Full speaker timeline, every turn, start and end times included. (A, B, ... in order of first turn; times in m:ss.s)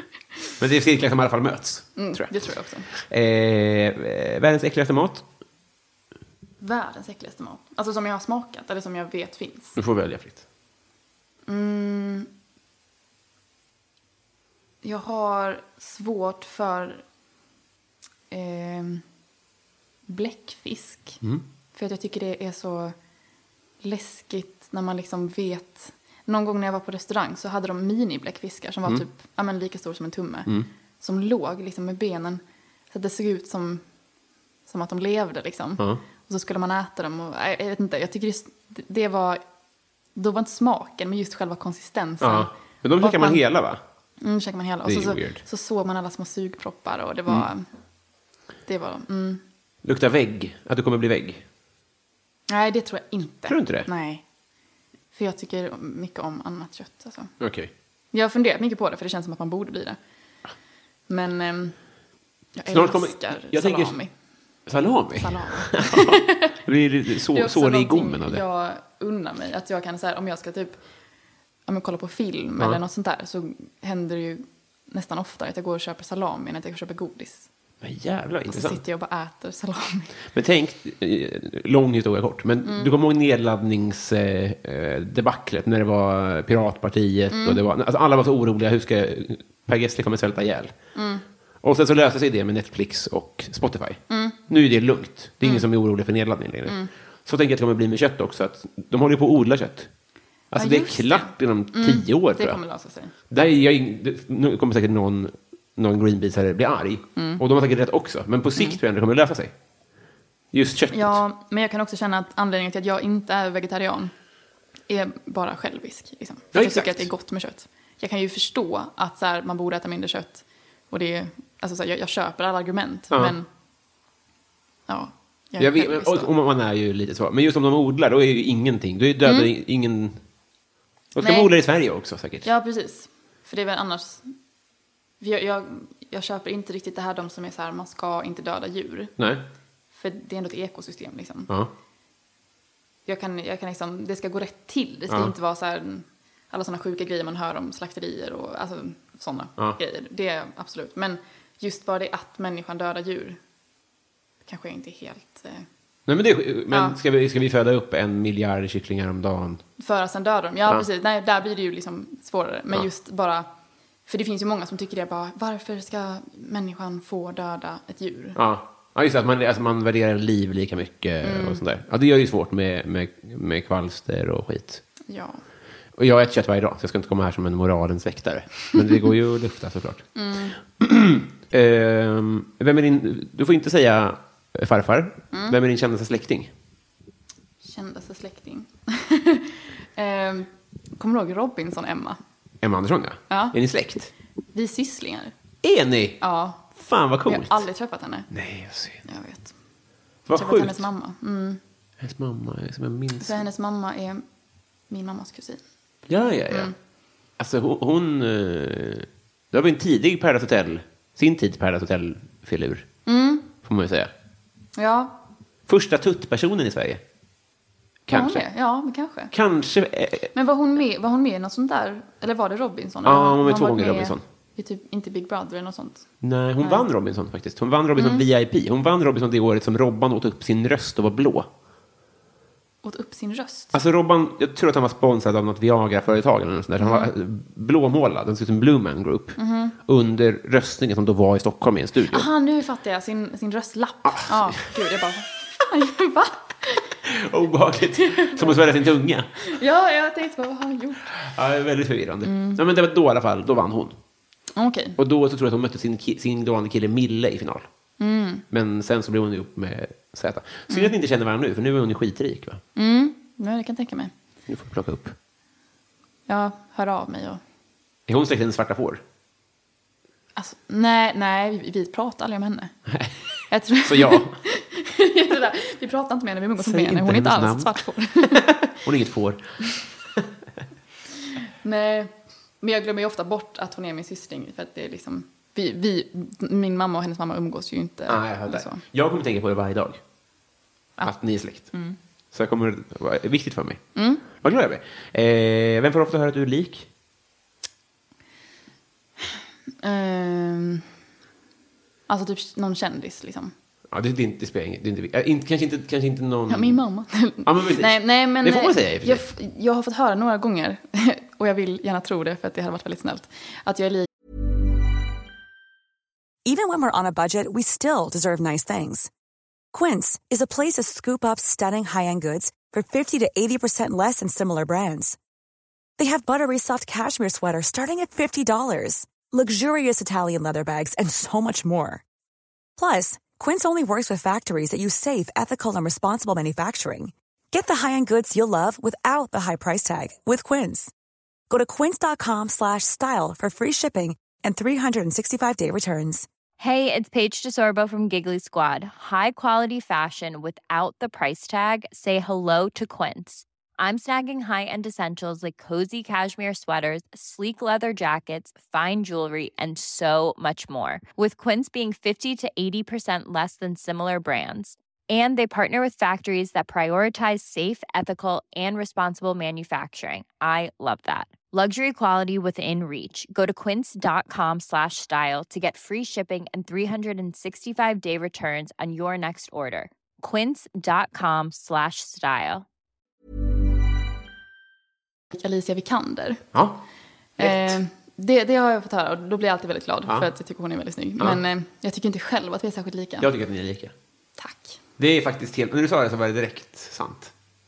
0:00.6-0:02.4 A
0:02.0-0:02.9 B
0:02.9-0:05.2 A
0:06.6-0:09.8 B
0:09.8-0:10.4 A
0:11.5-0:12.3 B
0:14.8-0:17.0 B
0:18.3-0:19.0 B
0:20.1-0:21.2 B
0:21.7-0:23.0 B
0:23.8-0:33.8 B
0:34.7-0:39.4 B
0:40.2-0:43.4 B
0:42.2-0:43.8 A
0:44.2-0:47.7 B
0:44.8-0:45.4 A
0:48.7-0:49.4 B
0:49.8-0:51.4 A
0:52.5-0:54.2 B
0:53.5-0:53.9 A
0:55.1-0:57.3 B
0:57.4-0:57.7 A
0:58.1-1:00.0 B
1:01.1-1:01.8 B
1:02.6-1:04.1 B
1:02.7-1:04.0 A
1:04.7-1:08.4 A
1:05.2-1:06.5 B
1:07.3-1:10.8 B
1:11.7-1:17.5 B
1:17.8-1:18.8 A
1:18.5-1:20.2 B
1:20.3-1:30.8 A
1:22.6-1:22.9 B
1:27.3-1:27.6 B
1:31.0-1:31.2 B
1:31.6-1:39.9 A
1:34.1-1:34.4 B
1:40.5-1:42.6 A
1:40.6-1:43.1 B
1:43.3-1:49.5 A
1:47.2-1:47.4 B
1:50.5-1:51.2 A
1:50.9-1:54.1 B
1:54.9-2:03.5 B
1:56.5-1:57.1 A
2:03.1-2:03.4 A
2:04.9-2:06.3 B
2:05.6-2:10.2 A
2:09.2-2:09.5 B
2:11.2-2:12.5 A
2:11.2-2:11.5 B
2:12.4-2:14.3 B
2:15.2-2:19.2 B
2:19.2-2:19.4 A
2:19.9-2:21.5 B
2:23.1-2:33.4 B
2:34.5-2:35.7 B
2:36.1-2:39.6 A
2:36.7-2:37.0 B
2:39.8-2:43.5 B
2:44.1-2:48.4 B
2:48.4-2:54.8 A
2:51.2-2:51.6 B
2:55.1-2:55.4 B
2:56.0-3:00.1 A
3:00.2-3:00.6 B
3:00.8-3:06.5 A
3:07.6-3:12.2 B
3:12.6-3:14.1 A
3:13.3-3:13.6 B
3:14.5-3:15.3 B
3:15.6-3:17.6 A
3:16.2-3:16.7 B
3:17.3-3:18.3 B
3:18.3-3:19.0 A
3:19.0-3:19.5 B
3:20.3-3:20.9 A
3:20.3-3:21.6 B
3:22.0-3:23.4 A
3:23.2-3:24.2 B
3:24.9-3:25.6 B
3:26.1-3:26.7 A
3:27.4-3:32.9 A
3:33.1-3:33.5 B
3:33.6-3:34.1 A
3:34.8-3:35.2 B
3:35.7-3:37.0 A
3:38.1-3:38.4 A
3:38.1-3:39.3 B
3:39.3-3:40.3 A
3:40.3-3:46.1 B
3:43.0-3:44.2 A
3:46.2-3:51.5 A
3:46.6-3:46.9 B
3:48.0-3:48.2 B
3:52.8-3:53.7 B
3:53.7-4:02.3 A
3:56.8-3:57.1 B
3:59.4-3:59.8 B
4:02.1-4:07.0 B
4:04.1-4:04.7 A
4:07.1-4:09.3 A
4:08.0-4:08.7 B
4:09.4-4:11.1 B
4:11.2-4:14.0 A
4:12.2-4:12.6 B
4:14.6-4:15.0 B
4:15.0-4:17.7 A
4:18.0-4:18.4 B
4:18.5-4:22.6 A
4:22.8-4:24.1 B
4:24.5-4:25.2 A
4:26.3-4:27.4 B
4:28.1-4:29.0 A
4:30.4-4:32.7 B
4:32.9-4:33.1 A
4:33.5-4:38.5 B
4:33.8-4:34.4 A
4:36.6-4:39.6 A
4:41.6-4:48.8 B
4:48.1-4:50.0 A
4:51.0-4:51.7 A
4:52.3-4:56.9 A
4:54.0-4:54.2 B
4:59.8-5:00.9 B
5:02.1-5:03.5 B
5:03.9-5:06.8 A
5:06.5-5:14.1 B
5:07.4-5:09.2 A
5:16.4-5:19.1 C
5:19.7-5:25.2 C
5:26.0-5:32.0 C
5:32.8-5:40.9 C
5:41.5-5:46.3 C
5:46.6-6:22.6 D
6:25.3-6:26.4 B
6:26.5-6:26.8 A
6:27.4-6:33.3 B
6:27.4-6:27.8 A
6:33.2-6:33.9 A
6:34.4-6:34.8 B
6:35.0-6:37.3 A